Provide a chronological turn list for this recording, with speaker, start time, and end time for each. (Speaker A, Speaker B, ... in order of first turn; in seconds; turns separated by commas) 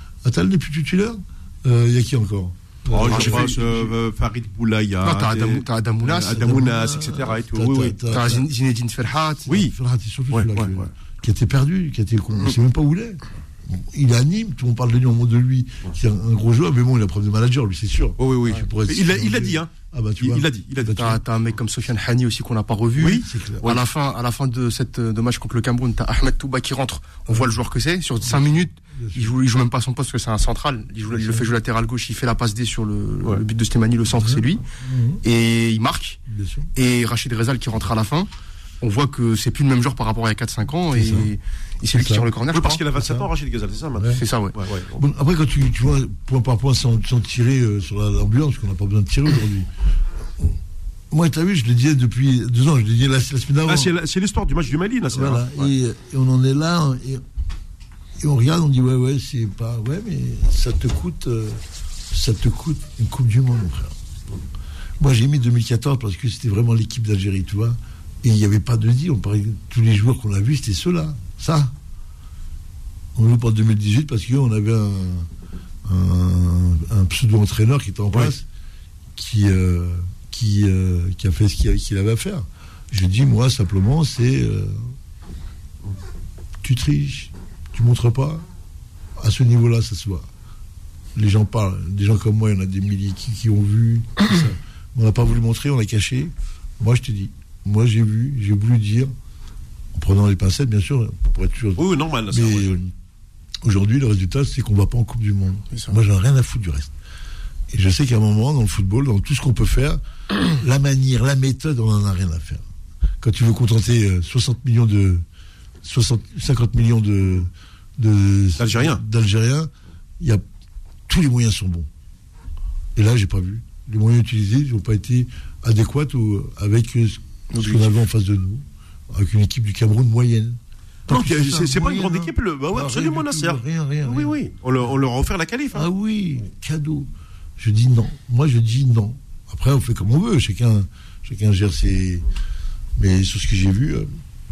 Speaker A: 0.2-3.9, Speaker B: 2.9-8.0, Speaker C: 3.0-3.5, Speaker C: 5.0-6.7, Speaker A: 6.3-8.4, Speaker C: 8.1-9.6, Speaker B: 9.5-9.7, Speaker A: 9.5-21.1, Speaker B: 10.3-10.9, Speaker B: 18.2-21.2, Speaker C: 20.8-34.6, Speaker B: 23.0-23.2, Speaker A: 23.2-23.8, Speaker A: 28.2-29.3, Speaker A: 31.1-31.5, Speaker A: 34.2-35.2, Speaker C: 35.2-36.2, Speaker A: 36.3-36.7, Speaker C: 36.8-38.3, Speaker C: 38.8-42.8, Speaker A: 40.9-41.3, Speaker A: 42.0-42.3, Speaker B: 42.5-45.0, Speaker A: 43.0-43.3, Speaker A: 44.0-44.2, Speaker C: 44.1-44.6, Speaker A: 45.0-49.7, Speaker A: 51.1-53.9, Speaker B: 53.7-55.7, Speaker A: 55.1-57.2, Speaker A: 58.2-64.0, Speaker A: 65.0-71.7, Speaker A: 73.2-75.3, Speaker A: 75.8-78.5, Speaker A: 79.2-84.9, Speaker A: 86.6-88.4, Speaker A: 89.2-90.3, Speaker A: 91.2-99.1, Speaker A: 99.9-102.9, Speaker B: 101.8-102.7, Speaker A: 103.6-106.9, Speaker C: 105.7-106.0, Speaker A: 107.7-112.6, Speaker A: 113.2-115.2, Speaker A: 115.8-120.4, Speaker B: 118.6-119.0, Speaker A: 121.1-121.9, Speaker A: 123.0-134.3, Speaker C: 127.5-128.0, Speaker B: 131.1-135.9, Speaker A: 135.7-142.2, Speaker A: 143.0-144.1